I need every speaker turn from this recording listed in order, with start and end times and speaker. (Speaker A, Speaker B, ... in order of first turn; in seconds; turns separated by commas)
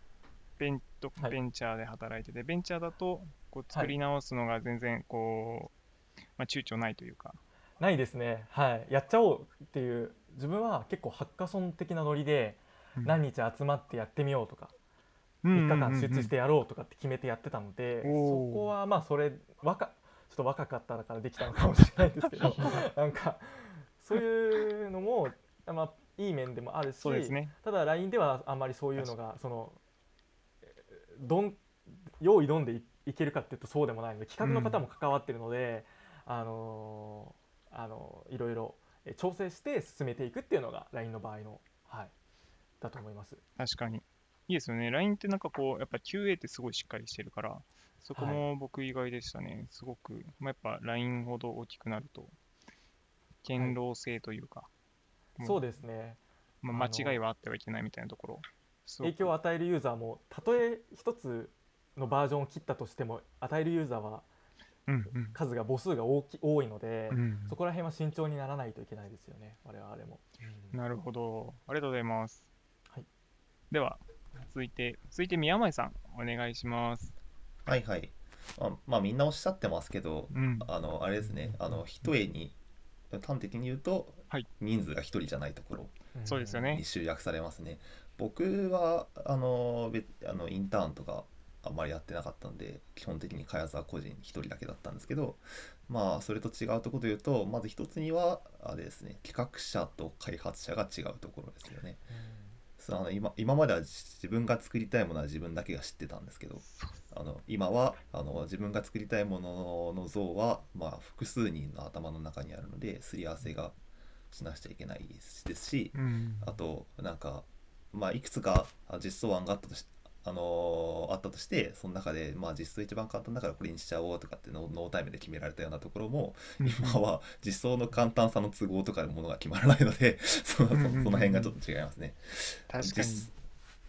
Speaker A: 0.6-5.7, Speaker A: 6.4-7.4, Speaker B: 7.8-14.7, Speaker A: 15.4-16.3, Speaker B: 15.5-29.8, Speaker A: 18.0-18.7, Speaker A: 22.4-22.8, Speaker A: 27.0-27.5, Speaker B: 30.7-42.1, Speaker A: 34.4-34.8, Speaker B: 42.8-43.4, Speaker A: 43.6-52.4, Speaker B: 48.1-48.5, Speaker A: 53.4-54.7, Speaker A: 55.4-55.6, Speaker B: 55.4-56.2, Speaker A: 56.6-59.3, Speaker B: 56.7-57.2, Speaker B: 59.0-64.3, Speaker A: 64.9-65.4, Speaker B: 65.1-70.8, Speaker A: 67.1-67.6, Speaker A: 70.7-72.5, Speaker A: 73.7-77.2, Speaker C: 77.7-82.6, Speaker A: 80.3-80.7, Speaker B: 81.5-81.8, Speaker C: 83.1-86.0, Speaker B: 86.2-86.7, Speaker A: 86.3-86.8, Speaker C: 86.7-102.0, Speaker B: 102.1-102.6, Speaker C: 102.8-113.8, Speaker A: 106.7-107.0, Speaker C: 114.3-133.3, Speaker A: 115.9-116.6, Speaker A: 126.6-127.0, Speaker A: 130.7-131.5, Speaker A: 132.7-133.3